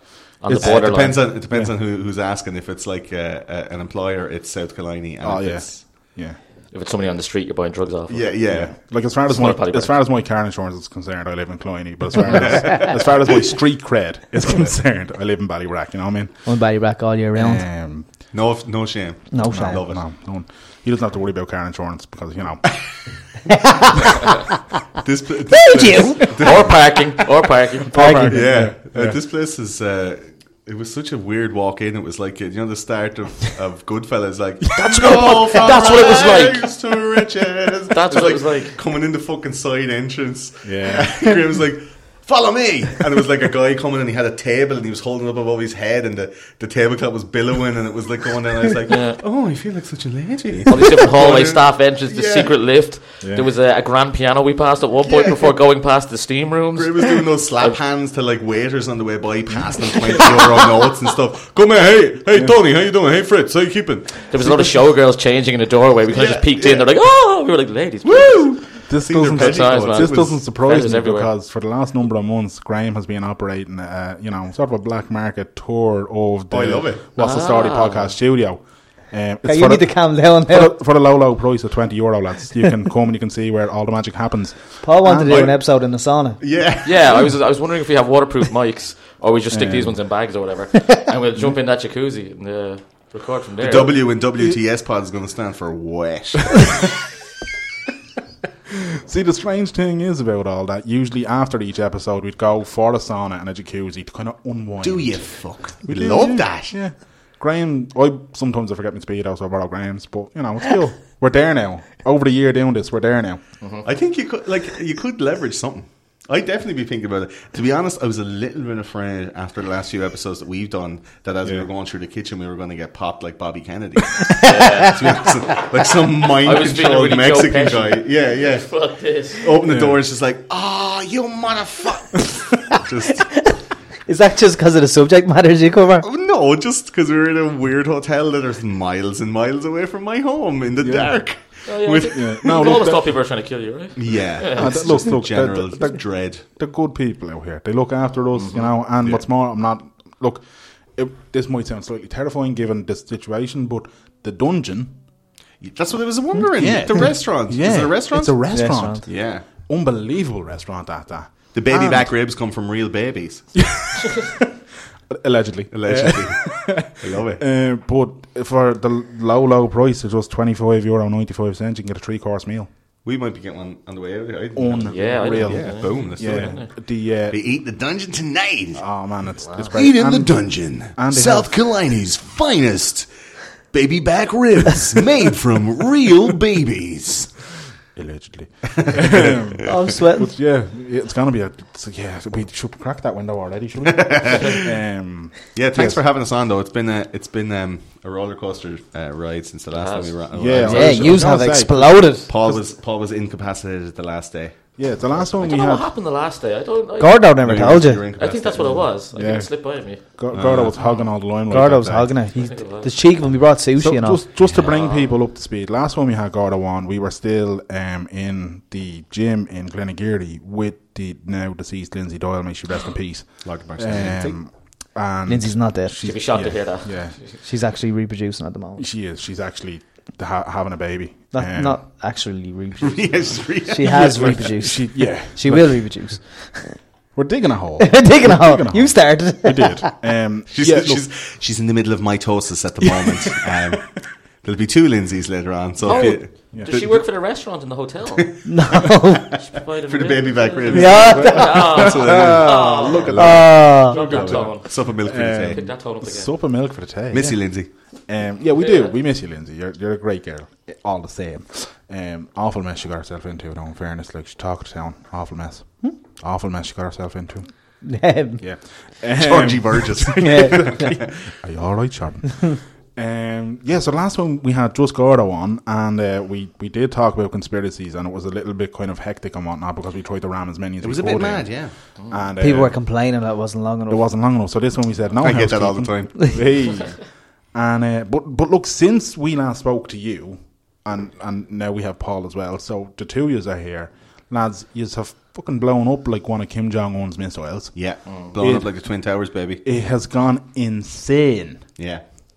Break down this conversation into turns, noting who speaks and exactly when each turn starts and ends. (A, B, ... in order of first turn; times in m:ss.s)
0:00.4-0:01.3 A
0:00.4-0:01.7 B
0:00.5-0:05.8 C
0:05.2-0:06.4 B
0:06.7-0:08.3 A
0:08.1-0:08.7 C
0:08.5-0:16.4 B
0:09.3-0:09.9 A
0:12.2-0:13.4 C
0:16.4-0:17.6 D
0:17.4-0:18.1 B
0:18.3-0:20.0 C
0:19.3-0:19.8 D
0:19.5-0:22.7 B
0:23.5-0:24.3 D
0:25.0-0:27.0 C
0:25.5-0:26.6 D
0:26.2-0:28.4 A
0:27.9-0:28.7 D
0:28.0-0:29.2 B
0:28.3-0:52.5 C
0:34.7-0:35.2 B
0:34.8-0:36.7 A
0:35.3-0:36.5 D
0:37.9-0:38.8 A
0:40.6-0:41.4 B
0:48.9-0:49.2 A
0:50.7-0:57.8 A
0:53.2-0:53.5 B
0:55.1-0:55.4 C
0:56.7-1:04.8 C
1:00.1-1:00.5 A
1:04.3-1:08.7 A
1:06.1-1:06.9 C
1:08.0-1:10.4 C
1:08.9-1:24.8 B
1:09.3-1:11.3 A
1:16.5-1:17.0 C
1:17.2-1:18.1 A
1:19.4-1:20.8 D
1:24.8-1:26.4 D
1:25.0-1:25.6 C
1:26.4-1:27.3 C
1:26.8-1:34.0 A
1:29.5-1:30.0 B
1:33.6-1:36.6 C
1:39.0-1:53.4 B
1:44.8-1:46.8 C
1:53.8-2:08.7 C
2:04.2-2:04.7 D
2:04.4-2:05.4 A
2:06.4-2:09.5 A
2:09.4-2:13.3 C
2:09.6-2:10.0 B
2:13.1-2:13.6 D
2:14.1-2:16.0 D
2:16.0-2:22.6 C
2:20.8-2:21.1 B
2:21.6-2:25.0 A
2:22.1-2:23.1 B
2:24.0-2:26.4 C
2:24.5-2:30.4 B
2:28.3-2:28.7 A
2:30.9-2:35.0 B
2:35.6-2:38.4 C
2:36.4-2:42.1 B
2:38.5-2:39.0 D
2:39.0-2:39.4 C
2:41.5-2:43.6 C
2:43.6-2:44.5 B
2:45.1-2:52.7 B
2:45.7-2:47.4 C
2:53.0-2:56.6 C
2:54.5-2:57.4 B
2:54.9-2:56.7 A
2:57.3-2:58.8 C
2:58.8-3:01.6 B
2:59.7-3:03.1 C
3:03.6-3:07.5 C
3:07.9-3:16.0 B
3:08.7-3:09.6 C
3:09.6-3:10.3 D
3:13.8-3:14.7 C
3:15.5-3:21.6 C
3:19.7-3:20.1 A
3:20.3-3:22.6 B
3:20.6-3:22.3 D
3:22.3-3:24.6 C
3:24.8-3:25.9 B
3:25.4-3:30.0 A
3:27.0-3:28.1 D
3:27.4-3:28.9 C
3:29.1-3:32.1 B
3:30.3-3:30.7 C
3:31.5-3:34.2 D
3:32.3-3:32.9 A
3:33.8-3:47.2 B
3:34.5-3:35.1 A
3:43.4-3:44.4 C
3:45.2-3:46.0 D
3:46.0-3:47.1 A
3:47.4-3:48.8 D
3:48.8-3:51.8 B
3:51.3-3:56.8 D
3:52.8-3:54.6 C
3:54.6-3:55.8 B
3:57.1-4:01.0 B
3:57.8-3:59.9 D
4:00.5-4:06.8 C
4:02.8-4:03.1 B
4:05.8-4:08.4 A
4:05.9-4:06.9 B
4:08.1-4:08.5 C
4:08.4-4:09.2 D
4:09.1-4:15.6 C
4:09.3-4:16.3 A
4:10.7-4:11.7 D
4:11.0-4:17.4 B
4:13.2-4:14.0 D
4:17.1-4:17.7 C
4:18.1-4:27.5 B
4:18.6-4:19.0 A
4:27.8-4:28.4 D
4:28.4-4:42.7 B
4:29.2-4:31.1 C
4:30.1-4:31.0 D
4:40.8-4:41.7 C
4:42.4-4:44.0 D
4:43.9-4:47.0 B
4:45.2-4:46.4 C
4:47.5-4:58.7 B
4:57.7-4:59.6 C
4:59.6-5:01.6 B
5:01.8-5:02.0 C